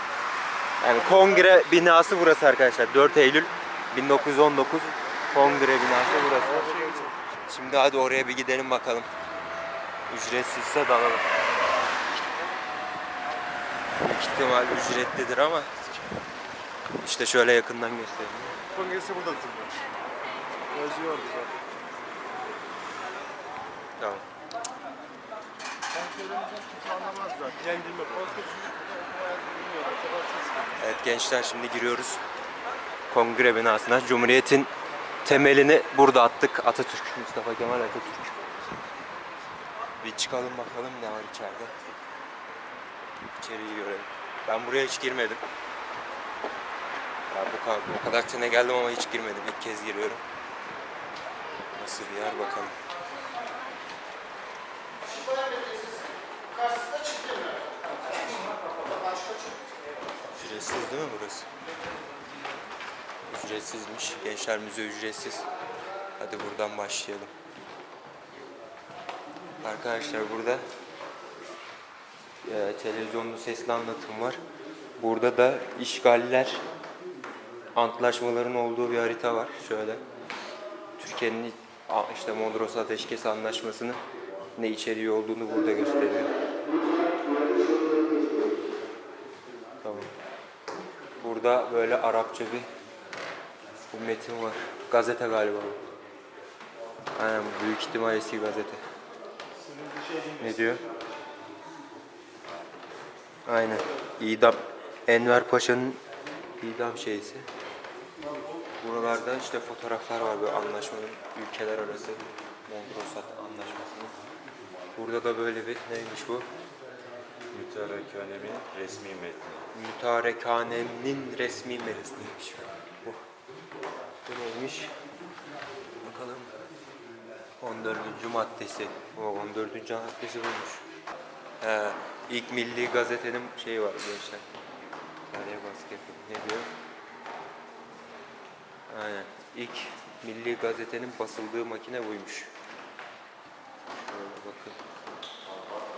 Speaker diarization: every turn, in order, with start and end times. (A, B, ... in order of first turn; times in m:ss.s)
0:00.8-0:06.7 A
0:01.0-0:01.6 B
0:05.7-0:07.2 B
0:07.5-0:09.1 A
0:10.1-0:11.3 A
0:14.0-0:15.7 A
0:17.0-0:18.6 A
0:18.7-0:19.8 B
0:20.7-0:21.6 B
0:24.0-0:24.2 A
0:25.9-0:30.8 B
0:30.8-0:32.2 A
0:33.1-0:34.7 A
0:35.2-0:38.4 A
0:40.0-0:41.8 A
0:43.3-0:45.4 A
0:47.3-0:50.2 A
0:51.8-0:52.8 A
0:55.0-0:57.9 B
0:58.8-0:59.6 B
1:00.3-1:01.5 A
1:03.3-1:05.4 A
1:06.2-1:07.3 A
1:09.6-1:10.6 A
1:12.4-1:14.4 A
1:15.0-1:16.6 A
1:17.8-1:20.0 A
1:21.0-1:24.0 A
1:24.6-1:26.3 A
1:29.8-1:30.1 A
1:31.2-1:32.7 A
1:33.9-1:35.8 A
1:37.2-1:38.8 A
1:39.6-1:40.8 B
1:40.4-1:40.8 A
1:43.5-1:46.0 A
1:46.6-1:47.5 A
1:48.8-1:54.2 A
1:55.0-1:56.5 A
1:57.5-1:59.7 C
1:59.7-2:03.2 A
2:04.3-2:04.9 A
2:06.0-2:06.5 A
2:07.6-2:10.9 A
2:11.6-2:14.4 A
2:15.3-2:16.7 A
2:18.9-2:22.5 A
2:24.1-2:24.8 A